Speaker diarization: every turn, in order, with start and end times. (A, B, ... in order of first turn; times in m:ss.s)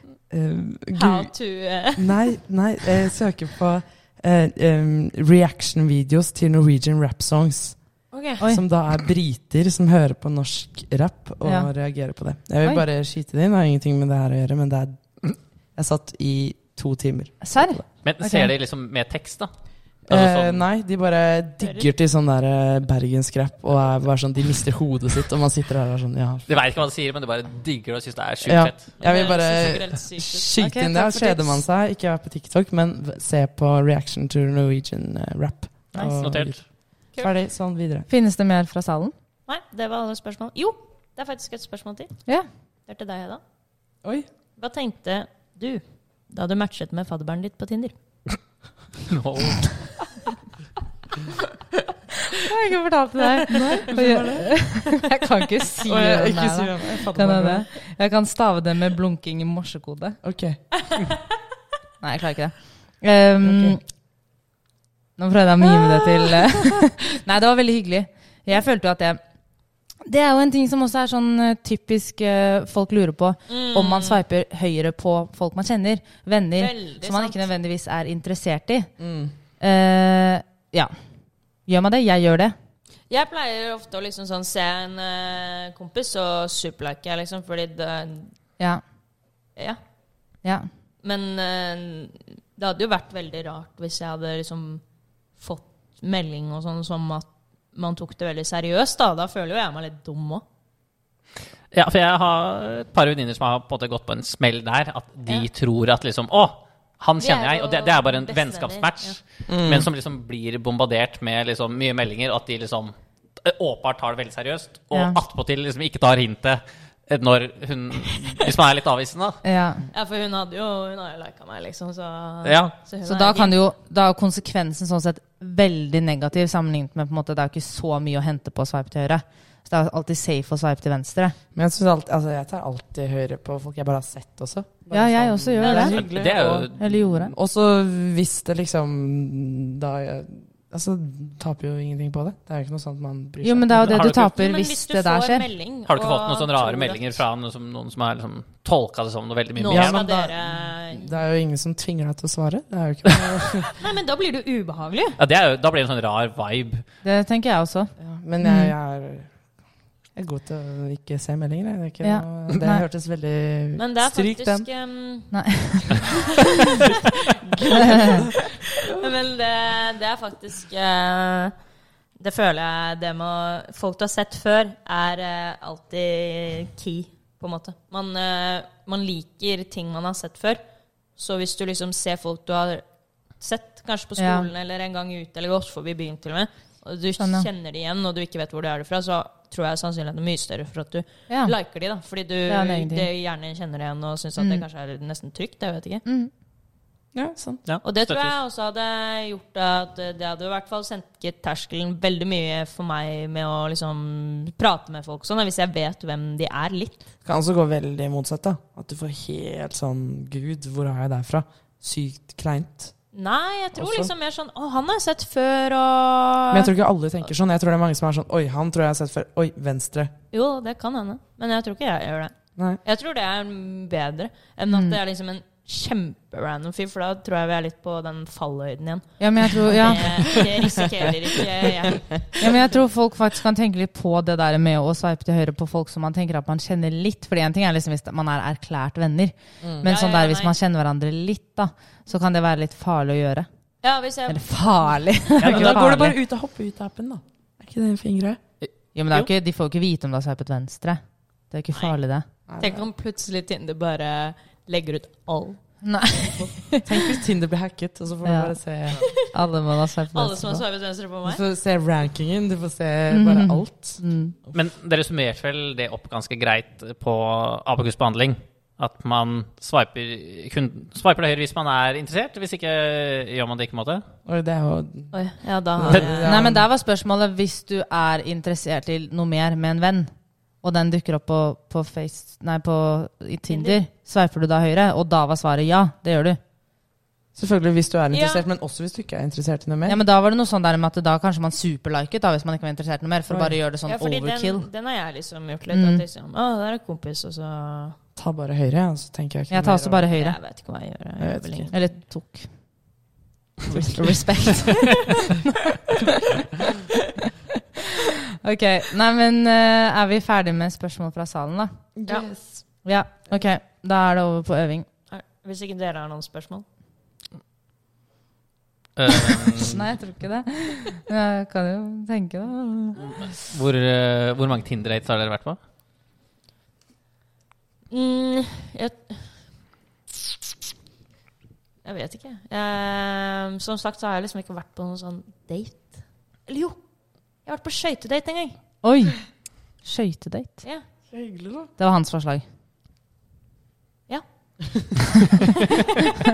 0:00.3-0:01.3 A
0:01.0-0:02.4 B
0:01.9-0:07.8 A
0:08.1-0:08.5 B
0:08.4-0:17.9 A
0:11.4-0:11.7 C
0:17.4-0:18.5 C
0:18.0-0:19.5 D
0:20.0-0:20.7 D
0:20.1-0:26.5 A
0:21.6-0:21.9 B
0:26.5-0:28.8 D
0:28.5-0:38.1 A
0:29.0-0:30.5 B
0:30.6-0:31.6 C
0:35.9-0:36.2 C
0:36.2-0:36.6 D
0:38.1-0:39.1 C
0:39.5-0:43.4 B
0:44.6-0:47.9 B
0:49.1-0:49.8 D
0:52.4-1:00.2 C
0:53.8-0:54.9 A
0:55.8-0:57.7 A
1:00.2-1:00.6 A
1:02.0-1:03.8 C
1:03.4-1:03.8 A
1:05.2-1:09.2 C
1:10.0-1:19.0 C
1:13.5-1:14.2 B
1:16.6-1:17.4 B
1:19.0-1:19.3 A
1:19.6-1:21.0 C
1:21.6-1:22.6 C
1:23.1-1:28.4 B
1:30.4-1:30.7 C
1:31.0-1:34.8 B
1:35.4-1:40.4 B
1:41.7-1:59.4 D
1:47.2-1:49.2 B
1:49.5-1:49.9 A
1:54.9-1:55.2 C
1:59.4-1:59.8 C
1:59.9-2:03.6 B
2:02.4-2:02.7 D
2:03.0-2:11.4 C
2:11.5-2:24.2 A
2:14.9-2:16.2 C
2:15.6-2:15.9 B
2:15.7-2:17.0 D
2:16.8-2:17.3 C
2:23.4-2:25.5 C
2:23.8-2:24.2 D
2:23.9-2:27.2 B
2:25.9-2:30.1 D
2:29.6-2:31.2 B
2:29.7-2:33.7 A
2:33.8-2:35.2 B
2:35.2-2:36.8 D
2:37.0-2:38.7 C
2:38.0-2:39.3 A
2:40.2-2:44.7 A
2:42.0-2:42.8 C
2:43.8-2:46.2 B
2:45.3-2:46.0 C
2:47.5-2:48.4 A
2:47.7-2:48.2 B
2:47.8-2:48.2 C
2:48.8-2:51.5 B
2:52.2-3:00.6 B
3:01.2-3:02.8 B
3:03.4-3:16.0 B
3:04.2-3:04.5 C
3:07.2-3:07.5 C
3:11.3-3:11.6 C
3:12.5-3:13.1 C
3:14.4-3:14.6 C
3:16.1-3:16.3 C
3:17.1-3:17.6 A
3:17.7-3:18.4 D
3:17.8-3:27.0 B
3:27.2-3:32.9 A
3:33.1-3:36.7 B
3:33.8-3:34.1 A
3:36.5-3:40.1 A
3:40.3-3:52.8 B
3:44.7-3:45.0 C
3:49.2-3:50.4 C
3:50.1-3:50.8 A
3:52.4-4:03.5 C
3:59.6-3:59.9 A
3:59.8-4:00.6 B
4:03.8-4:05.1 B
4:04.3-4:06.2 C
4:05.5-4:08.4 A
4:08.6-4:09.3 D
4:09.0-4:12.3 C
4:12.5-4:12.9 A
4:12.6-4:16.5 B
4:15.8-4:16.8 C
4:16.7-4:19.1 A
4:18.2-4:18.6 C
4:19.2-4:20.6 C
4:20.1-4:21.4 B
4:21.2-4:24.5 A
4:23.1-4:24.4 C
4:24.5-4:34.0 D
4:34.3-4:35.1 A
4:35.1-4:36.4 B
4:35.7-4:36.7 A
4:35.8-4:36.2 D
4:36.2-4:46.4 C
4:43.5-4:43.8 B
4:47.4-4:50.0 A
4:48.1-4:48.4 B
4:49.9-4:54.7 C
4:53.3-4:53.6 A
4:53.9-4:58.0 B
4:55.7-4:56.0 C
4:58.2-5:00.1 A
4:59.5-5:00.4 C
5:00.1-5:01.7 B
5:01.2-5:01.8 A
5:01.7-5:02.6 C
5:03.7-5:05.3 C
5:08.4-5:11.9 C
5:12.0-5:12.7 A
5:12.8-5:14.9 C
5:15.1-5:16.6 B
5:19.0-5:19.8 D
5:19.6-5:23.3 C
5:23.1-5:25.6 D
5:27.9-5:29.6 B
5:31.8-5:38.7 B
5:38.8-5:40.7 C
5:41.1-5:41.7 A
5:41.8-5:42.4 C
5:44.1-5:44.8 B